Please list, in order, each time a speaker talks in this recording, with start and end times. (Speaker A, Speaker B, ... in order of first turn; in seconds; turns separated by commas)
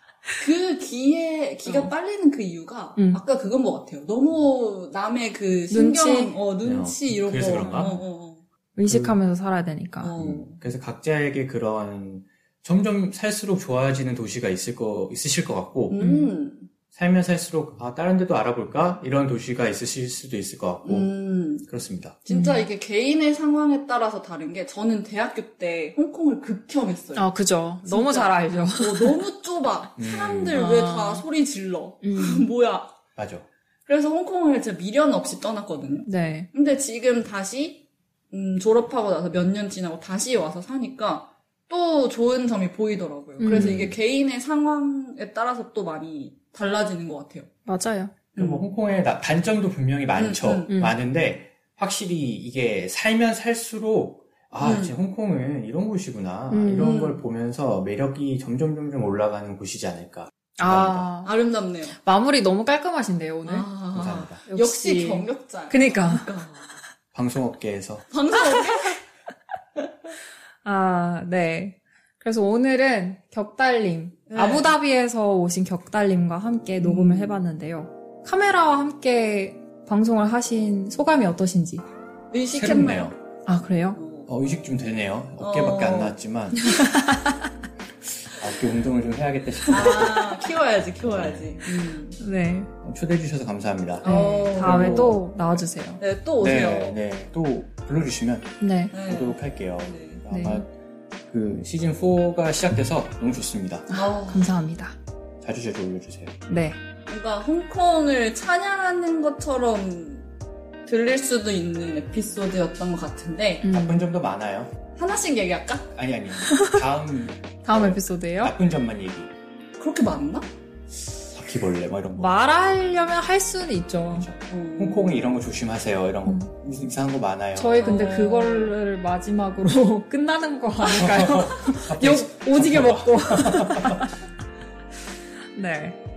Speaker A: 0.4-8.4, Speaker B: 1.6-1.9, Speaker B: 3.0-3.2, Speaker B: 5.7-6.4, Speaker C: 6.6-8.0, Speaker B: 7.5-7.9, Speaker B: 8.8-10.2, Speaker C: 8.9-9.2, Speaker A: 10.0-10.6, Speaker C: 10.2-16.0, Speaker A: 15.9-16.7, Speaker B: 16.0-16.3, Speaker C: 16.9-21.1, Speaker A: 20.8-21.7, Speaker C: 21.6-22.2, Speaker A: 22.2-27.3, Speaker B: 22.3-22.6, Speaker B: 27.1-29.2, Speaker A: 27.8-32.9, Speaker C: 30.0-30.6, Speaker B: 30.5-31.2, Speaker B: 32.0-32.5, Speaker C: 33.1-33.5, Speaker A: 33.9-47.5, Speaker B: 36.0-36.5, Speaker B: 43.4-43.9, Speaker C: 43.5-43.9, Speaker B: 47.6-48.1, Speaker A: 48.3-48.6, Speaker C: 48.4-61.1, Speaker A: 50.1-50.7, Speaker A: 54.6-54.9, Speaker B: 56.5-57.0, Speaker A: 56.7-57.2, Speaker B: 60.6-61.3, Speaker A: 61.2-61.9, Speaker B: 61.9-63.7, Speaker A: 63.4-66.8, Speaker C: 63.9-64.4, Speaker B: 64.5-66.3, Speaker C: 67.1-68.0, Speaker A: 68.1-69.0, Speaker B: 70.6-81.8, Speaker A: 74.3-74.7, Speaker A: 76.8-77.4, Speaker A: 82.3-83.1, Speaker C: 82.5-83.2, Speaker B: 83.5-84.0, Speaker A: 84.0-84.3, Speaker C: 84.3-86.8, Speaker A: 85.4-86.2, Speaker B: 86.6-87.3, Speaker C: 88.4-90.4, Speaker A: 89.7-92.2, Speaker C: 91.0-91.6, Speaker B: 92.2-92.7, Speaker C: 92.8-95.2, Speaker A: 94.0-94.9, Speaker B: 94.0-96.0, Speaker A: 96.0-97.0, Speaker C: 96.4-100.7, Speaker B: 98.6-98.9, Speaker A: 98.9-100.2, Speaker B: 100.3-100.6, Speaker C: 101.3-103.9, Speaker B: 103.9-105.0, Speaker A: 103.9-104.5, Speaker C: 105.4-106.5, Speaker B: 106.5-106.8, Speaker A: 107.1-110.3, Speaker A: 110.9-113.7, Speaker B: 113.6-114.1, Speaker C: 113.7-114.7, Speaker A: 115.0-115.9, Speaker C: 115.9-119.3, Speaker B: 116.5-116.8, Speaker B: 117.6-118.5, Speaker A: 119.8-120.5, Speaker C: 121.3-122.3, Speaker B: 122.2-124.3, Speaker C: 124.1-127.8, Speaker A: 124.5-125.2, Speaker B: 126.3-126.5, Speaker B: 127.6-134.2, Speaker A: 127.8-128.7, Speaker C: 130.9-134.1, Speaker B: 135.6-136.0